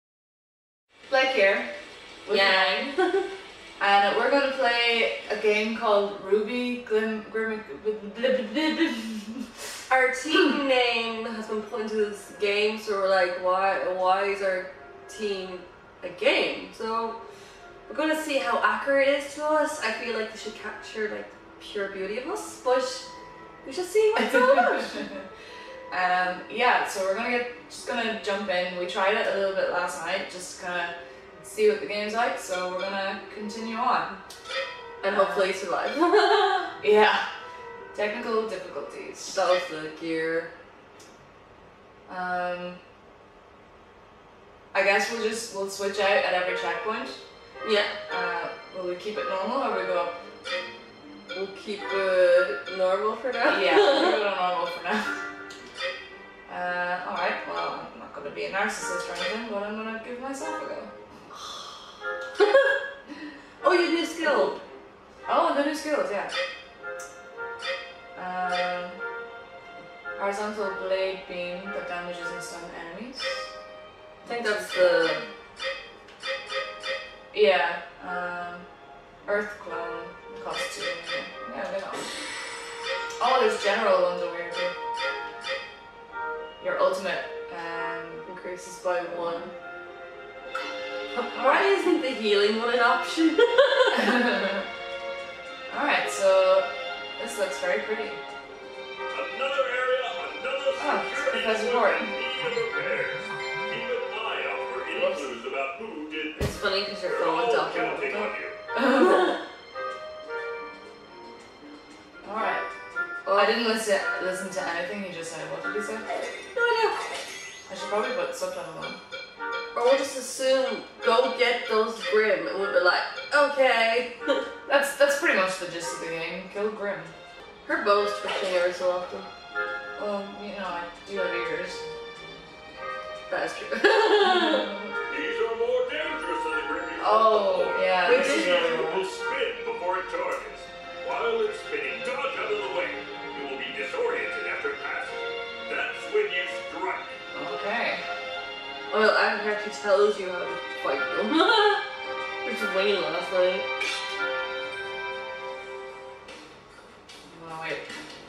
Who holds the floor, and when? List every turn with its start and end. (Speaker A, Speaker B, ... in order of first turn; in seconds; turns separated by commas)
Speaker A: 1.1-1.7, Speaker A: 2.2-2.9, Speaker B: 2.3-3.3, Speaker A: 3.8-9.5, Speaker B: 9.9-17.2, Speaker B: 17.9-23.1, Speaker B: 23.6-25.0, Speaker A: 24.1-25.2, Speaker A: 25.9-34.2, Speaker B: 35.0-36.7, Speaker A: 35.0-35.5, Speaker A: 36.8-37.3, Speaker A: 37.9-39.4, Speaker B: 39.3-40.5, Speaker A: 42.1-42.8, Speaker A: 44.7-47.2, Speaker B: 47.6-48.0, Speaker A: 48.1-50.1, Speaker B: 51.3-54.2, Speaker A: 53.4-55.2, Speaker A: 56.5-60.9, Speaker B: 61.3-61.8, Speaker B: 62.4-62.8, Speaker B: 63.6-64.5, Speaker A: 64.2-64.6, Speaker A: 65.3-66.3, Speaker A: 68.1-69.0, Speaker A: 70.2-73.5, Speaker A: 74.2-75.2, Speaker B: 74.2-75.2, Speaker A: 77.3-78.6, Speaker A: 79.2-82.1, Speaker A: 83.2-84.7, Speaker A: 86.6-88.3, Speaker B: 88.2-89.5, Speaker A: 89.0-89.5, Speaker B: 91.1-94.4, Speaker A: 91.3-91.7, Speaker A: 93.9-94.6, Speaker A: 95.7-98.2, Speaker C: 99.1-108.6, Speaker A: 100.8-102.1, Speaker A: 104.9-105.4, Speaker B: 106.3-109.4, Speaker A: 112.2-112.7, Speaker B: 113.2-113.6, Speaker A: 113.3-116.2, Speaker B: 116.5-117.0, Speaker A: 117.7-119.0, Speaker B: 119.7-124.4, Speaker A: 124.7-127.1, Speaker B: 127.6-129.3, Speaker A: 130.0-131.8, Speaker B: 133.3-134.8, Speaker C: 135.0-147.2, Speaker A: 137.0-139.1, Speaker B: 138.0-138.8, Speaker A: 147.3-148.0, Speaker B: 148.9-151.8, Speaker B: 152.4-153.7, Speaker A: 157.2-157.8